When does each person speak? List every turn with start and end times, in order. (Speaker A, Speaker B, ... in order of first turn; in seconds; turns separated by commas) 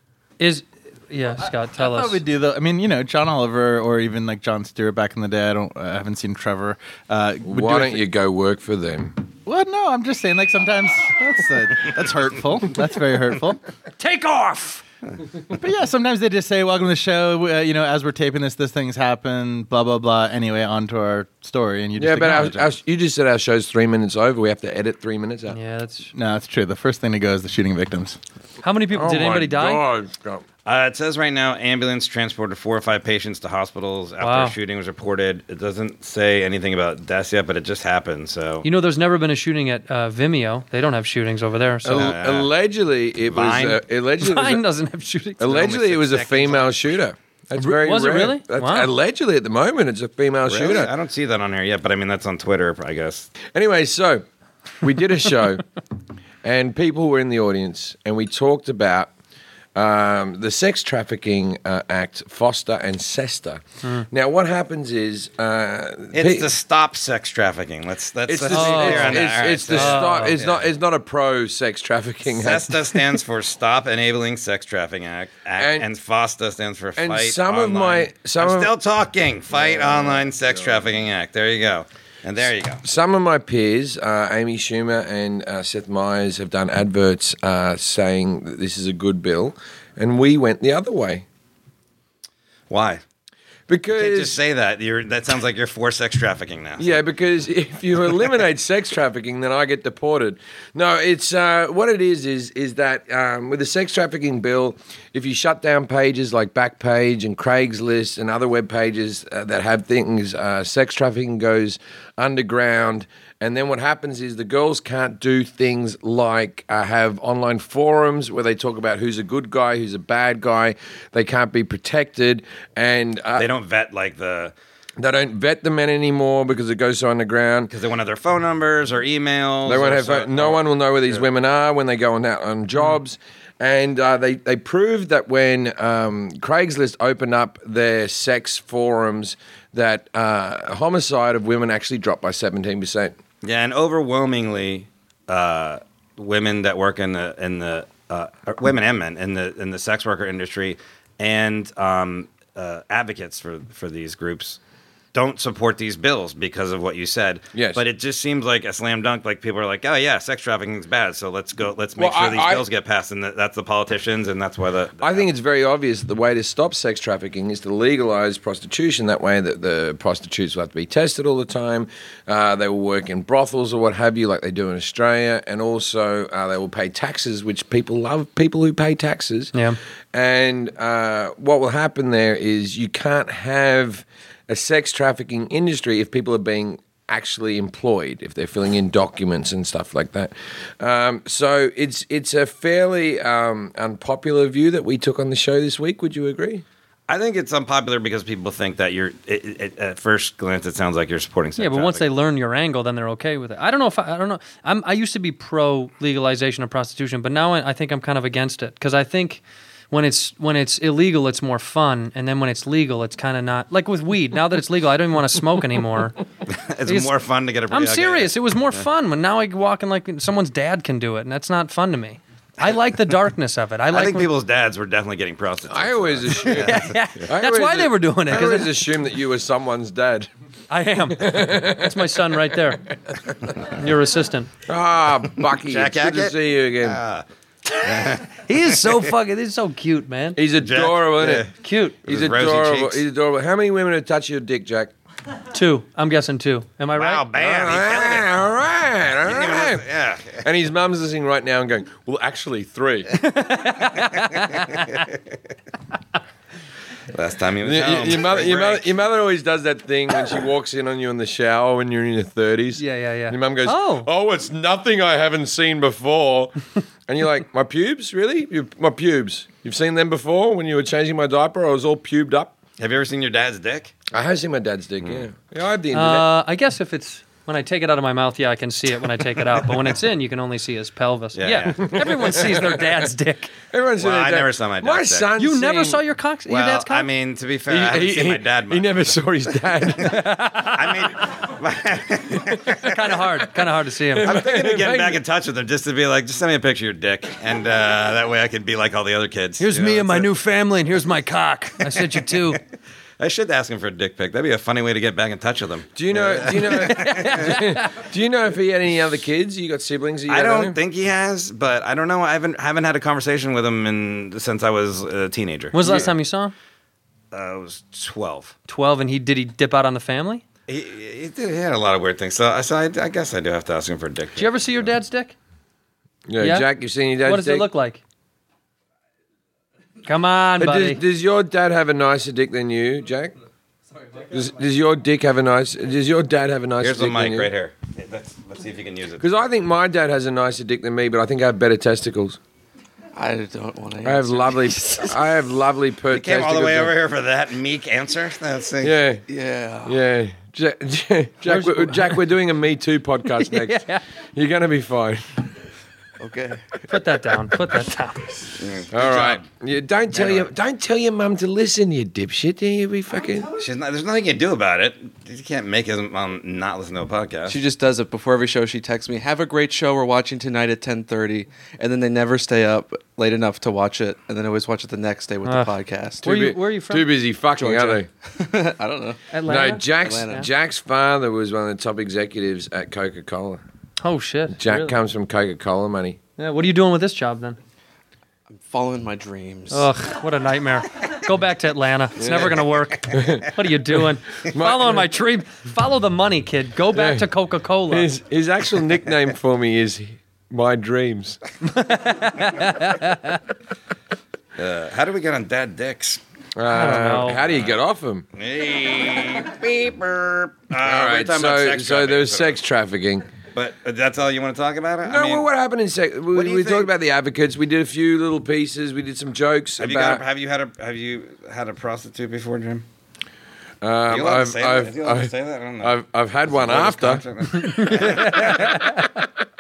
Speaker A: 0.4-2.2, Speaker B: 1.4-8.1, Speaker C: 7.5-9.2, Speaker B: 9.4-13.6, Speaker A: 14.0-14.8, Speaker B: 15.5-22.7, Speaker C: 22.0-25.6, Speaker A: 25.5-26.1, Speaker B: 26.1-28.2, Speaker A: 28.6-29.9, Speaker C: 28.9-30.4, Speaker D: 30.7-38.7, Speaker A: 34.2-34.5, Speaker A: 38.6-42.1, Speaker C: 41.8-44.6, Speaker D: 41.9-42.5, Speaker D: 43.3-43.8, Speaker A: 44.2-45.7, Speaker C: 45.4-50.9, Speaker D: 45.5-46.8, Speaker A: 47.6-48.9, Speaker D: 50.5-53.3, Speaker C: 53.5-54.3, Speaker C: 54.8-55.6, Speaker C: 56.4-59.1, Speaker C: 59.8-66.5, Speaker D: 66.1-70.7, Speaker C: 68.3-73.2, Speaker A: 68.5-70.4, Speaker D: 72.3-82.8, Speaker C: 75.6-75.9, Speaker C: 77.0-78.7, Speaker C: 79.5-80.9, Speaker C: 82.8-91.2, Speaker D: 92.7-93.0, Speaker C: 93.7-94.4, Speaker D: 93.9-97.0, Speaker C: 96.8-123.5, Speaker D: 123.3-124.5, Speaker C: 125.0-127.7, Speaker D: 127.7-130.6, Speaker C: 129.7-143.2, Speaker D: 143.4-154.6, Speaker D: 155.1-165.2, Speaker C: 157.5-157.8, Speaker C: 162.0-162.7, Speaker C: 165.0-179.5, Speaker C: 180.1-196.7, Speaker D: 197.1-202.1, Speaker A: 201.6-216.2, Speaker D: 216.5-218.3, Speaker A: 216.9-217.1, Speaker A: 217.7-224.3, Speaker D: 223.9-227.0, Speaker C: 225.7-230.3, Speaker A: 226.4-228.9, Speaker A: 230.7-232.9, Speaker C: 231.1-232.1, Speaker A: 233.7-234.5, Speaker C: 234.7-237.0, Speaker D: 235.5-237.2, Speaker D: 237.8-239.1, Speaker A: 238.0-240.4, Speaker C: 240.4-241.5, Speaker D: 240.6-241.5, Speaker A: 241.6-242.0, Speaker D: 242.1-243.0, Speaker C: 242.1-244.9, Speaker A: 245.5-247.2, Speaker D: 246.9-248.3, Speaker C: 247.3-249.8, Speaker D: 249.2-250.5, Speaker C: 250.4-253.1, Speaker A: 253.2-255.0, Speaker D: 257.1-258.9, Speaker C: 257.6-272.6, Speaker A: 262.8-264.1, Speaker D: 272.8-273.9, Speaker C: 274.1-276.3, Speaker A: 275.9-283.5, Speaker D: 281.4-282.2, Speaker C: 281.8-283.1, Speaker C: 283.7-286.0, Speaker D: 284.0-285.3, Speaker A: 285.4-287.1, Speaker D: 286.5-289.2, Speaker C: 287.7-290.2, Speaker A: 290.0-291.1, Speaker D: 290.7-292.9, Speaker C: 292.3-292.8, Speaker A: 292.8-294.3, Speaker C: 294.1-295.2, Speaker D: 294.2-300.3, Speaker A: 299.6-302.6, Speaker D: 303.2-307.6, Speaker C: 306.0-310.8, Speaker A: 306.6-307.9, Speaker D: 310.3-316.1, Speaker A: 315.7-316.5, Speaker C: 315.8-316.1, Speaker D: 317.3-318.5, Speaker A: 318.7-320.4, Speaker D: 320.7-324.9, Speaker A: 324.4-325.4, Speaker C: 326.3-327.7, Speaker A: 326.4-326.7, Speaker A: 327.2-328.0, Speaker A: 330.0-331.0, Speaker C: 330.6-333.3, Speaker C: 334.2-337.5, Speaker D: 336.8-339.3, Speaker C: 339.2-342.4, Speaker E: 343.1-345.2, Speaker C: 344.0-346.9, Speaker D: 346.1-349.0, Speaker C: 348.8-349.2, Speaker E: 349.3-350.0, Speaker C: 349.9-355.4, Speaker A: 351.5-352.2, Speaker A: 353.4-354.0, Speaker E: 356.2-356.7, Speaker A: 356.9-358.6, Speaker D: 358.6-359.4, Speaker C: 358.9-363.5, Speaker D: 360.2-360.5, Speaker D: 363.5-367.6, Speaker E: 367.5-376.3, Speaker A: 375.4-375.7, Speaker A: 376.2-377.1, Speaker C: 376.2-378.1, Speaker E: 377.6-379.2, Speaker A: 379.3-380.4, Speaker C: 379.4-383.6, Speaker E: 380.0-380.5, Speaker A: 384.0-385.0, Speaker C: 384.5-386.2, Speaker A: 386.4-387.6, Speaker E: 388.5-389.9, Speaker A: 389.7-398.1, Speaker C: 392.2-393.5, Speaker C: 394.5-395.1, Speaker C: 396.9-397.3, Speaker C: 397.9-401.4, Speaker A: 401.7-403.4, Speaker D: 404.6-406.2, Speaker C: 406.6-408.3, Speaker A: 406.7-407.4, Speaker D: 408.4-412.6, Speaker C: 410.8-413.3, Speaker D: 413.6-415.5, Speaker C: 415.1-420.2, Speaker D: 416.3-416.9, Speaker D: 419.8-422.9, Speaker C: 423.8-427.2, Speaker D: 424.1-426.0, Speaker D: 426.5-428.9, Speaker A: 427.5-429.2, Speaker C: 428.0-428.7